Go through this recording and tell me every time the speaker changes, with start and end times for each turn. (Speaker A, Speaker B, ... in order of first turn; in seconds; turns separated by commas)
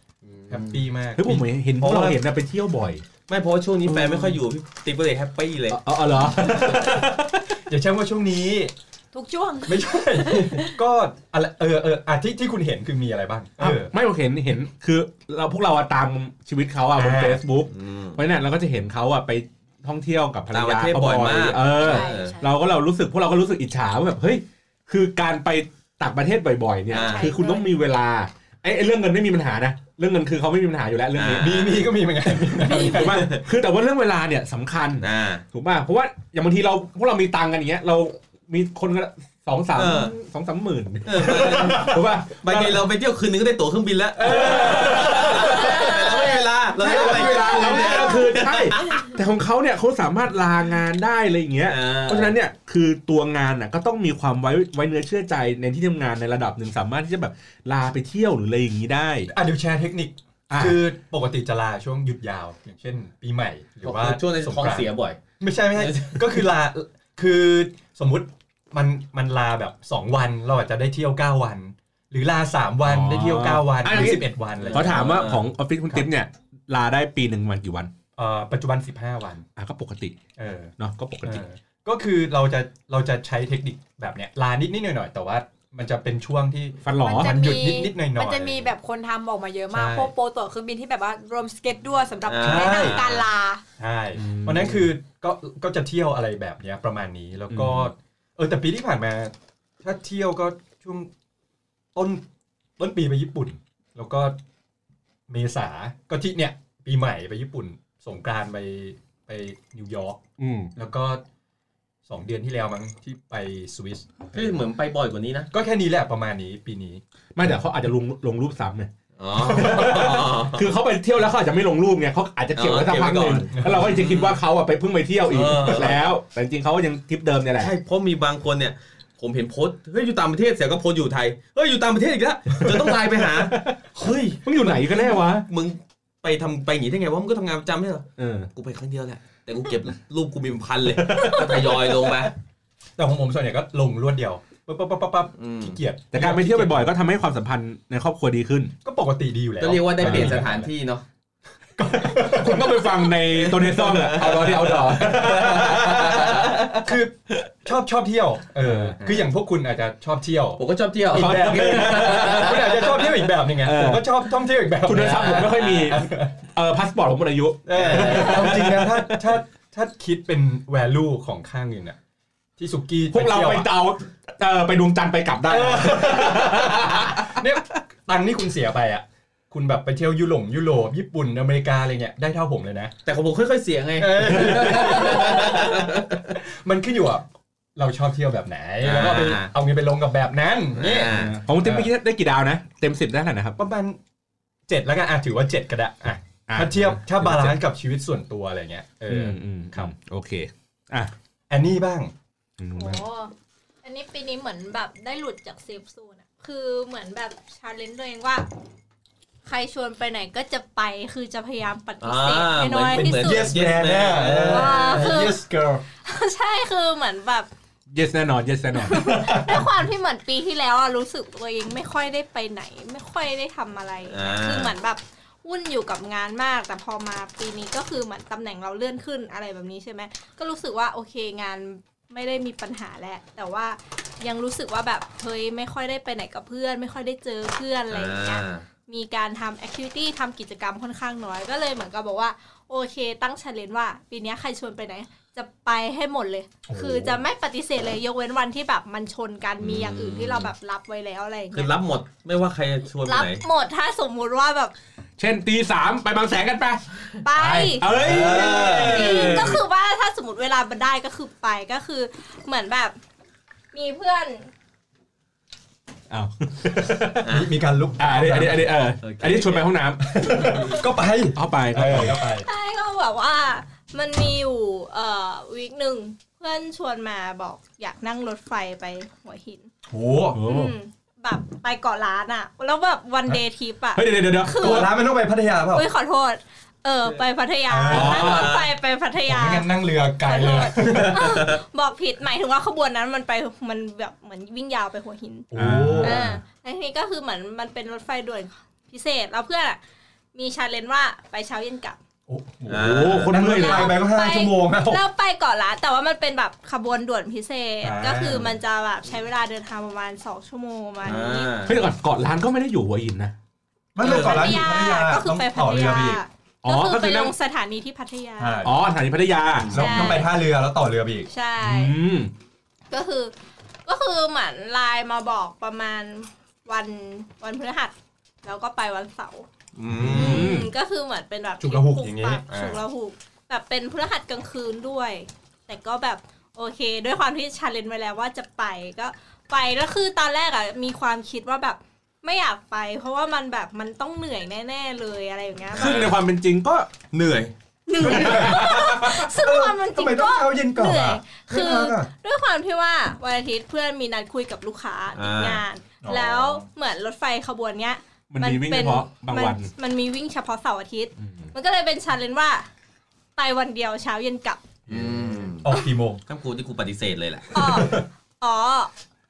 Speaker A: 0.2-0.8, Speaker B: 0.5-2.1, Speaker C: 1.1-3.0, Speaker A: 1.8-2.1, Speaker A: 3.3-5.8, Speaker C: 3.9-4.4, Speaker C: 5.7-7.4, Speaker B: 6.3-7.0, Speaker B: 7.6-8.7, Speaker D: 9.1-10.8, Speaker B: 9.7-13.9, Speaker C: 13.6-31.8, Speaker B: 16.9-17.4, Speaker A: 17.7-18.2, Speaker A: 20.5-22.4, Speaker D: 21.8-22.4, Speaker A: 26.9-27.4, Speaker D: 26.9-27.7, Speaker A: 31.1-31.8, Speaker B: 31.3-33.4, Speaker C: 32.4-42.8, Speaker A: 33.0-33.4, Speaker A: 35.0-35.4, Speaker A: 39.7-40.1, Speaker A: 41.0-49.0, Speaker B: 44.2-48.7, Speaker C: 44.2-59.3, Speaker A: 51.6-52.4, Speaker B: 59.3-75.0, Speaker C: 60.5-60.8, Speaker A: 63.8-65.2, Speaker A: 65.7-66.3, Speaker C: 72.8-77.9, Speaker A: 73.8-75.5, Speaker B: 78.2-79.5, Speaker C: 79.6-80.2, Speaker B: 80.4-88.7, Speaker C: 80.8-81.4, Speaker C: 86.8-87.4, Speaker D: 87.0-93.6, Speaker B: 89.7-90.1, Speaker A: 92.3-93.2, Speaker B: 92.4-93.0, Speaker B: 93.8-101.1, Speaker C: 94.2-94.9, Speaker C: 97.5-97.9, Speaker B: 101.9-102.2, Speaker B: 102.8-104.3, Speaker B: 105.3-110.2, Speaker C: 110.4-110.7, Speaker B: 110.7-111.2, Speaker B: 112.1-114.4, Speaker A: 114.3-115.5, Speaker B: 115.5-117.0, Speaker C: 117.3-127.7, Speaker A: 119.2-120.7, Speaker A: 122.5-124.4, Speaker B: 123.5-123.9, Speaker A: 125.3-126.0, Speaker A: 127.6-142.3, Speaker C: 133.4-133.8, Speaker C: 134.4-135.4, Speaker C: 138.2-138.5, Speaker C: 141.0-141.9, Speaker B: 143.0-146.9, Speaker A: 145.4-145.8, Speaker C: 146.1-148.7, Speaker B: 148.8-150.7, Speaker A: 149.6-151.0, Speaker C: 150.0-150.5, Speaker B: 151.8-166.3, Speaker C: 152.2-156.0, Speaker A: 153.3-156.8, Speaker C: 158.6-159.0, Speaker A: 160.6-162.9, Speaker C: 161.1-164.1, Speaker C: 164.8-169.2, Speaker A: 164.9-166.0, Speaker B: 167.7-172.0, Speaker A: 167.7-168.7, Speaker B: 172.6-173.7, Speaker C: 173.1-177.4, Speaker B: 175.5-182.9, Speaker A: 183.0-186.1, Speaker B: 184.0-191.9, Speaker A: 188.8-189.5, Speaker A: 190.8-191.4, Speaker C: 191.1-193.6, Speaker B: 193.6-194.0, Speaker B: 194.7-199.9, Speaker C: 196.5-197.6, Speaker C: 199.1-201.1, Speaker B: 201.5-202.1, Speaker C: 202.6-203.0, Speaker E: 202.8-203.3, Speaker E: 203.8-208.4, Speaker E: 209.4-213.6, Speaker A: 212.0-215.3, Speaker B: 212.9-215.8, Speaker E: 214.5-215.4, Speaker E: 216.0-217.5, Speaker C: 217.9-219.3, Speaker E: 218.8-251.7, Speaker B: 219.0-219.6, Speaker A: 224.1-224.7, Speaker A: 237.9-238.6, Speaker B: 246.7-247.2, Speaker A: 249.6-250.5, Speaker A: 251.5-253.4, Speaker E: 253.0-254.7, Speaker C: 255.2-259.6, Speaker E: 257.2-257.9, Speaker A: 257.8-259.6, Speaker B: 258.0-258.5, Speaker E: 258.5-262.9, Speaker E: 263.7-264.5, Speaker C: 266.1-267.3, Speaker A: 267.2-267.5, Speaker B: 267.2-268.7, Speaker C: 268.0-270.8, Speaker A: 269.0-269.7, Speaker B: 270.2-272.5, Speaker C: 271.3-272.2, Speaker E: 272.2-279.7, Speaker B: 279.9-280.4, Speaker C: 280.3-280.7, Speaker E: 280.4-284.9, Speaker C: 283.9-284.9, Speaker B: 284.5-285.9, Speaker E: 285.7-289.7, Speaker B: 287.7-288.5, Speaker C: 287.9-288.5, Speaker A: 288.2-288.7, Speaker B: 289.2-291.6, Speaker E: 290.2-299.8, Speaker A: 290.8-291.6, Speaker B: 295.5-296.2, Speaker C: 295.5-296.4, Speaker E: 300.3-302.0, Speaker B: 302.3-305.0, Speaker A: 302.7-303.6, Speaker C: 302.7-304.0, Speaker E: 303.4-311.6, Speaker B: 307.8-308.5, Speaker A: 311.0-311.8, Speaker C: 311.6-313.3, Speaker B: 313.9-316.2, Speaker A: 314.0-314.6, Speaker E: 314.0-318.6, Speaker C: 316.6-317.3, Speaker B: 318.4-318.8, Speaker C: 318.6-320.1, Speaker A: 319.6-320.1, Speaker B: 319.7-321.3, Speaker E: 319.7-320.3, Speaker E: 321.3-321.9, Speaker C: 321.6-322.3, Speaker E: 322.9-323.3, Speaker E: 323.9-329.5, Speaker A: 329.8-330.5, Speaker B: 329.9-330.5, Speaker C: 330.0-330.7, Speaker E: 330.2-346.0, Speaker B: 331.6-332.6, Speaker A: 345.7-346.2, Speaker C: 345.7-346.9, Speaker A: 347.1-347.5, Speaker E: 347.9-362.7, Speaker B: 348.0-352.1, Speaker C: 348.0-348.8, Speaker A: 355.1-355.6, Speaker B: 356.0-356.6, Speaker C: 358.3-359.7, Speaker C: 361.2-361.5, Speaker E: 363.4-364.6, Speaker A: 364.9-365.7, Speaker B: 365.6-366.2, Speaker A: 366.3-367.9, Speaker E: 367.5-368.9, Speaker B: 367.6-368.0